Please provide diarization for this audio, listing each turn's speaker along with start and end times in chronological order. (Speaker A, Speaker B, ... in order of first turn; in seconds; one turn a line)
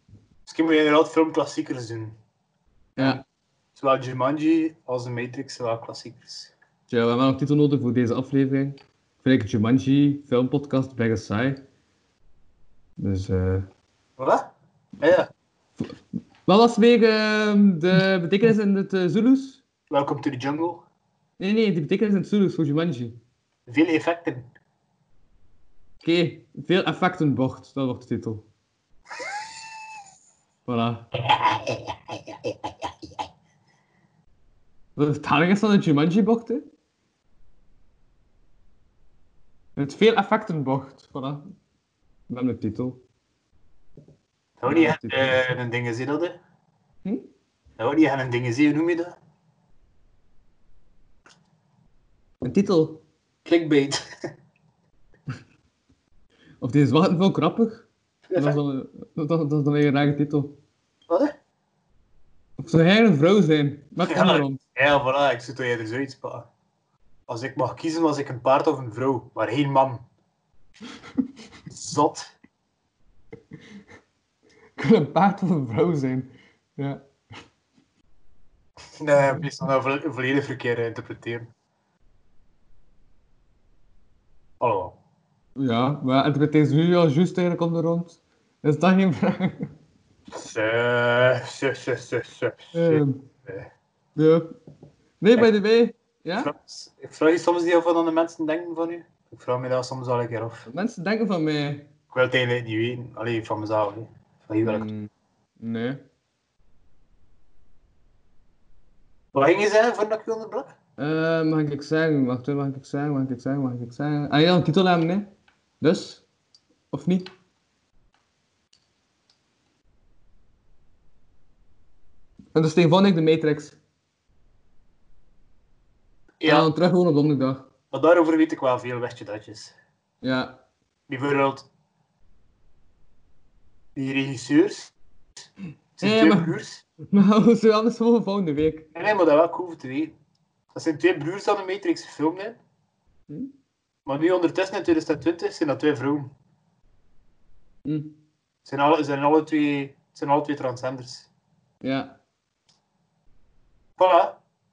Speaker A: 0.5-2.1
Speaker B: 3.0-3.2
Speaker A: 3.0-3.2
Speaker A: 3.7-6.5
Speaker B: 6.9-11.6
Speaker B: 13.0-13.7
Speaker A: 14.2-15.3
Speaker B: 16.4-19.6
Speaker A: 19.9-20.8
Speaker B: 21.4-23.2
Speaker A: 23.7-24.5
Speaker B: 26.0-28.5
Speaker B: 30.7-31.1
Speaker A: 31.3-31.9
Speaker B: 35.0-36.6
Speaker B: 39.8-41.4
Speaker B: 42.3-43.0
Speaker A: 44.6-46.4
Speaker B: 44.7-45.4
Speaker A: 47.8-49.2
Speaker B: 52.4-53.0
Speaker A: 53.4-54.0
Speaker B: 56.6-60.6
Speaker A: 58.3-58.6
Speaker A: 61.1-61.3
Speaker B: 62.6-64.6
Speaker A: 64.1-66.5
Speaker A: 67.3-70.0
Speaker A: 71.7-72.3
Speaker B: 74.8-77.0
Speaker A: 79.0-81.5
Speaker A: 84.6-85.0
Speaker B: 85.6-89.7
Speaker A: 90.3-93.7
Speaker B: 92.7-93.2
Speaker B: 94.2-94.5
Speaker B: 95.2-96.5
Speaker A: 96.4-100.7
Speaker B: 100.7-101.9
Speaker A: 102.1-104.9
Speaker B: 104.6-106.0
Speaker A: 109.3-110.7
Speaker B: 111.0-116.2
Speaker B: 116.9-117.3
Speaker B: 122.5-123.8
Speaker A: 126.4-126.7
Speaker B: 126.4-127.7
Speaker A: 127.9-129.7
Speaker B: 130.2-130.6
Speaker A: 131.1-131.7
Speaker A: 133.9-134.9
Speaker A: 136.0-136.8
Speaker B: 136.0-138.9
Speaker A: 138.9-140.2
Speaker A: 140.7-142.6
Speaker A: 144.1-146.3
Speaker B: 147.8-148.2
Speaker A: 148.6-151.3
Speaker B: 151.8-152.2
Speaker A: 154.0-154.4